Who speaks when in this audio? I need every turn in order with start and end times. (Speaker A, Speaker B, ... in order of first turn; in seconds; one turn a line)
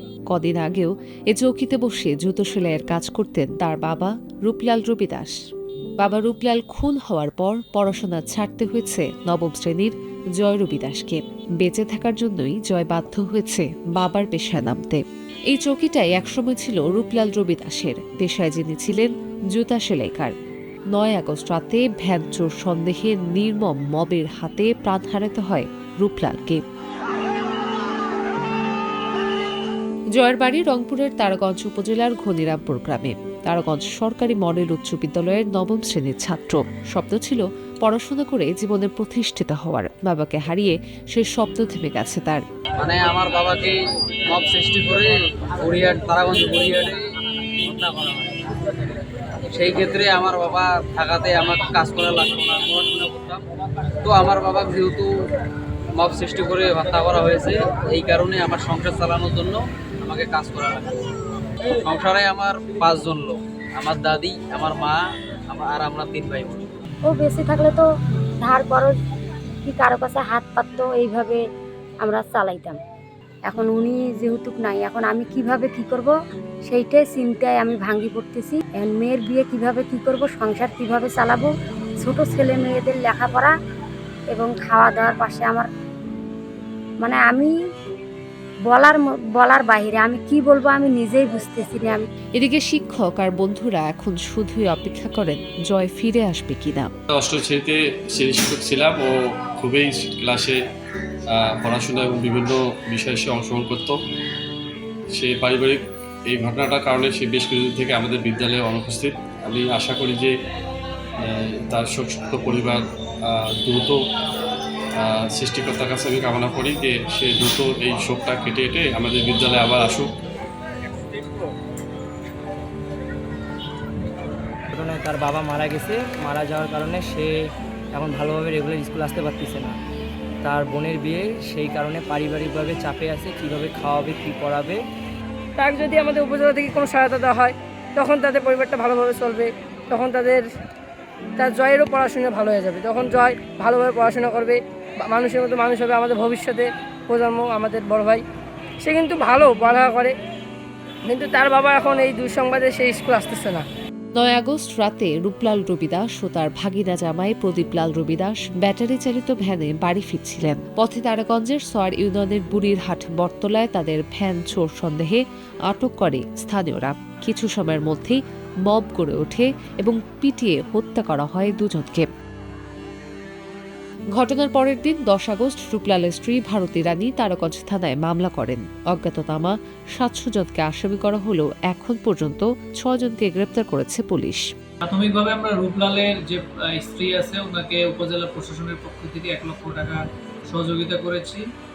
Speaker A: 0.3-5.3
Speaker A: 6.0-20.3
Speaker A: 20.9-26.6
Speaker A: 30.2-42.4
Speaker B: 42.8-43.7
Speaker B: 44.3-45.1
Speaker B: 45.6-47.0
Speaker B: 47.6-48.3
Speaker B: 49.5-53.4
Speaker B: 54.0-55.1
Speaker B: 56.0-61.0
Speaker B: 61.9-65.0
Speaker B: 65.5-66.7
Speaker C: 67.1-67.8
Speaker C: 68.4-68.9
Speaker C: 69.7-71.4
Speaker C: 72.0-72.8
Speaker C: 73.5-76.1
Speaker C: 76.7-81.5
Speaker C: 82.0-83.5
Speaker C: 84.3-85.7
Speaker C: 87.0-87.5
Speaker C: 88.7-92.0
Speaker A: 92.4-96.9
Speaker D: 97.1-100.6
Speaker D: 101.3-104.0
Speaker D: 105.1-110.3
Speaker D: 111.2-114.0
Speaker D: 115.0-120.1
Speaker E: 124.7-127.3
Speaker E: 127.9-129.8
Speaker E: 130.4-134.8
Speaker F: 135.6-140.4
Speaker F: 141.4-148.2
Speaker F: 148.8-150.1
Speaker F: 151.1-153.7
Speaker A: 154.2-172.1
Speaker A: 174.2-184.4
Speaker G: 184.8-191.4